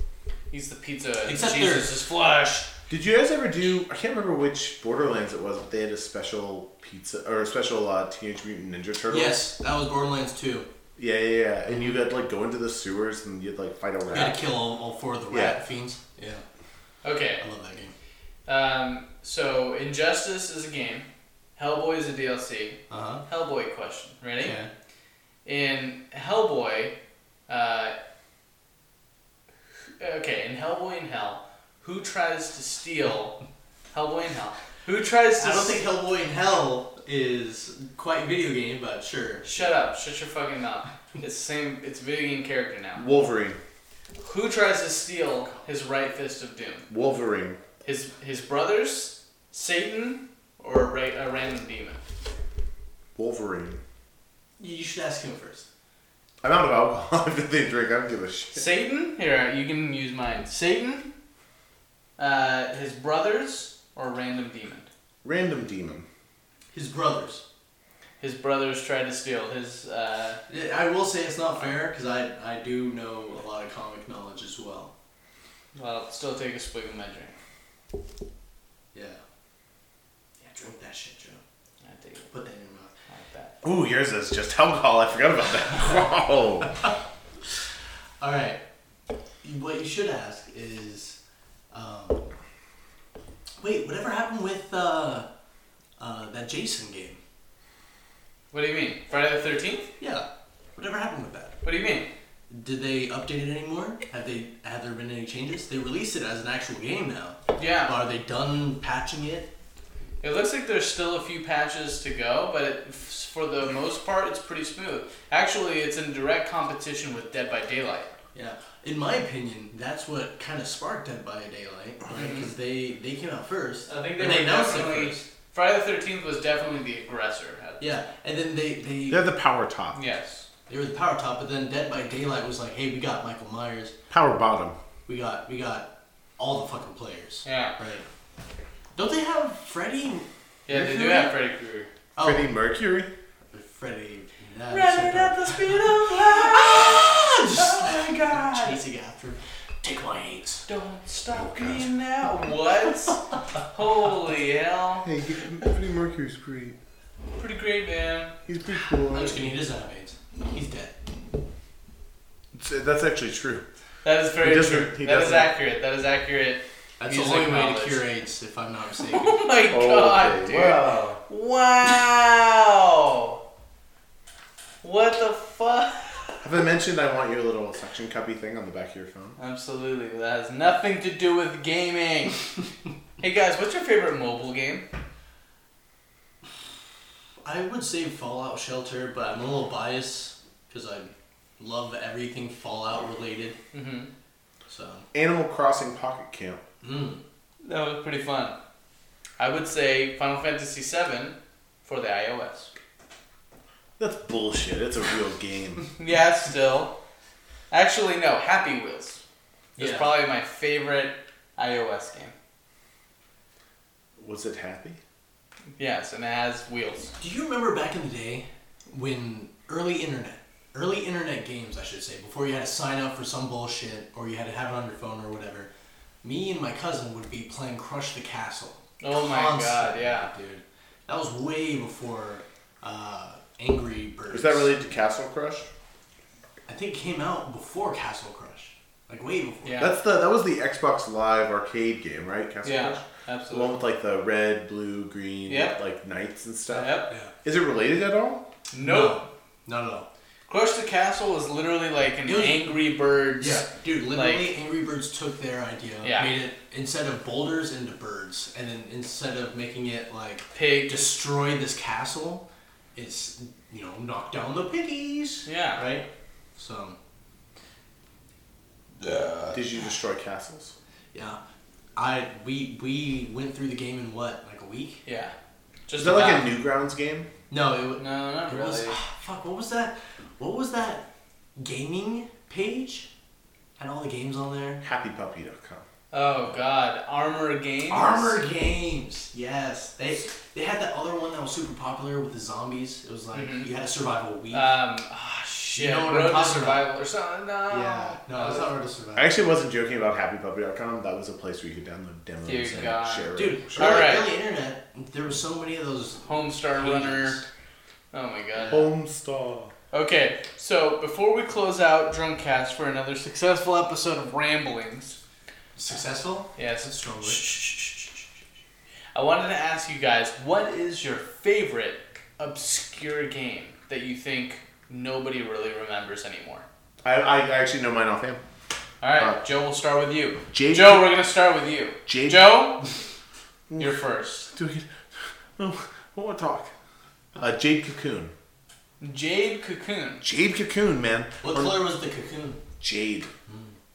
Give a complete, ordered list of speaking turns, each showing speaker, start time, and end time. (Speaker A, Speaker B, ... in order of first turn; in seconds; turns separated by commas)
Speaker A: 0.5-2.7, Speaker B: 1.3-1.9, Speaker C: 2.9-9.4, Speaker B: 9.1-10.7, Speaker C: 11.0-14.4, Speaker B: 14.1-16.4, Speaker C: 15.3-15.6, Speaker A: 17.0-17.4, Speaker B: 17.4-17.9, Speaker A: 18.5-24.6, Speaker B: 22.9-23.2, Speaker B: 24.4-24.7, Speaker A: 25.4-26.9, Speaker A: 27.5-27.9, Speaker A: 30.0-33.4, Speaker A: 33.9-35.8, Speaker B: 35.4-39.5, Speaker A: 39.5-43.1, Speaker C: 43.0-43.6, Speaker A: 44.2-46.9, Speaker C: 46.9-47.6, Speaker A: 47.8-52.0, Speaker C: 53.2-53.8, Speaker B: 54.6-55.7, Speaker C: 56.4-58.7, Speaker A: 58.5-61.1, Speaker A: 62.2-64.9, Speaker C: 65.2-66.1, Speaker B: 66.7-67.4, Speaker A: 68.2-70.4, Speaker B: 70.5-74.9, Speaker A: 75.8-77.4, Speaker B: 78.9-79.2, Speaker B: 80.4-81.4, Speaker A: 81.8-82.3, Speaker B: 82.3-82.9, Speaker A: 83.1-83.5, Speaker C: 83.6-86.8, Speaker B: 88.2-88.6, Speaker B: 89.4-91.2, Speaker B: 91.7-92.3, Speaker B: 93.6-95.3, Speaker B: 96.0-97.2, Speaker A: 98.5-99.9, Speaker B: 100.0-101.6, Speaker A: 101.6-102.1, Speaker B: 102.5-109.5, Speaker A: 107.6-108.0, Speaker A: 110.2-118.1, Speaker B: 118.3-125.3, Speaker A: 122.2-122.5, Speaker A: 123.9-128.0, Speaker B: 127.8-129.3, Speaker C: 129.1-130.0, Speaker A: 129.9-130.4, Speaker B: 130.7-133.9, Speaker C: 134.1-134.8, Speaker B: 135.1-138.1, Speaker A: 137.4-137.8, Speaker B: 139.0-140.3, Speaker A: 140.7-141.9, Speaker C: 140.7-141.3, Speaker B: 142.2-142.5, Speaker C: 142.2-143.1, Speaker B: 143.5-150.7, Speaker A: 144.7-148.8, Speaker A: 150.7-155.1, Speaker C: 155.0-156.8, Speaker A: 157.4-158.4, Speaker C: 158.5-159.4, Speaker A: 159.1-159.5, Speaker B: 159.1-160.9, Speaker C: 162.5-163.6, Speaker A: 164.0-168.1, Speaker C: 164.4-165.5, Speaker B: 167.0-169.4, Speaker A: 169.0-173.4, Speaker C: 169.7-171.2, Speaker A: 174.8-176.4, Speaker C: 176.4-179.4, Speaker A: 179.4-182.5, Speaker A: 183.2-184.8, Speaker B: 187.4-193.6, Speaker A: 193.7-194.1, Speaker B: 194.7-195.1, Speaker C: 195.1-196.6, Speaker B: 196.8-197.2, Speaker A: 197.6-198.6, Speaker A: 199.4-202.7, Speaker C: 204.0-205.9, Speaker A: 206.0-206.9, Speaker A: 207.7-209.2, Speaker B: 209.8-210.1, Speaker A: 209.8-212.3, Speaker C: 214.2-215.0, Speaker A: 215.8-217.1, Speaker B: 217.2-225.7, Speaker B: 226.2-234.9, Speaker A: 229.0-230.3, Speaker C: 234.3-235.7, Speaker B: 236.7-239.8, Speaker A: 239.7-239.9, Speaker C: 239.8-248.4, Speaker A: 242.6-243.7, Speaker A: 245.5-245.8, Speaker A: 246.7-247.1, Speaker A: 248.7-249.2, Speaker B: 248.8-250.1, Speaker A: 250.5-254.5, Speaker B: 252.2-252.8, Speaker B: 253.4-267.0, Speaker A: 256.0-256.4, Speaker A: 260.5-261.1, Speaker A: 265.5-265.9, Speaker A: 269.0-269.6, Speaker C: 269.5-270.7, Speaker B: 271.1-271.4, Speaker B: 272.0-275.0, Speaker A: 275.1-275.3, Speaker A: 275.9-276.5, Speaker C: 276.0-277.3, Speaker B: 277.5-283.1, Speaker A: 278.0-279.0, Speaker B: 283.8-284.8, Speaker C: 284.8-285.9, Speaker A: 286.1-288.4, Speaker B: 287.9-294.7, Speaker A: 293.3-293.7, Speaker A: 294.5-298.7, Speaker B: 295.8-296.9, Speaker B: 297.7-299.4, Speaker C: 299.2-304.1, Speaker A: 302.4-304.3, Speaker B: 303.4-307.4, Speaker A: 306.2-307.4, Speaker A: 308.1-308.9, Speaker B: 308.6-308.9, Speaker C: 308.7-309.7, Speaker A: 309.9-315.2, Speaker B: 315.8-317.4, Speaker A: 316.6-318.2, Speaker A: 319.1-326.6, Speaker C: 327.0-328.4, Speaker A: 329.0-332.9, Speaker C: 330.5-331.1, Speaker C: 332.1-332.7, Speaker C: 333.7-334.0, Speaker A: 333.8-334.5, Speaker C: 334.5-334.9, Speaker C: 335.6-336.7, Speaker C: 337.4-338.3, Speaker A: 339.0-340.2, Speaker C: 340.2-341.8, Speaker B: 341.4-342.6, Speaker C: 342.8-343.3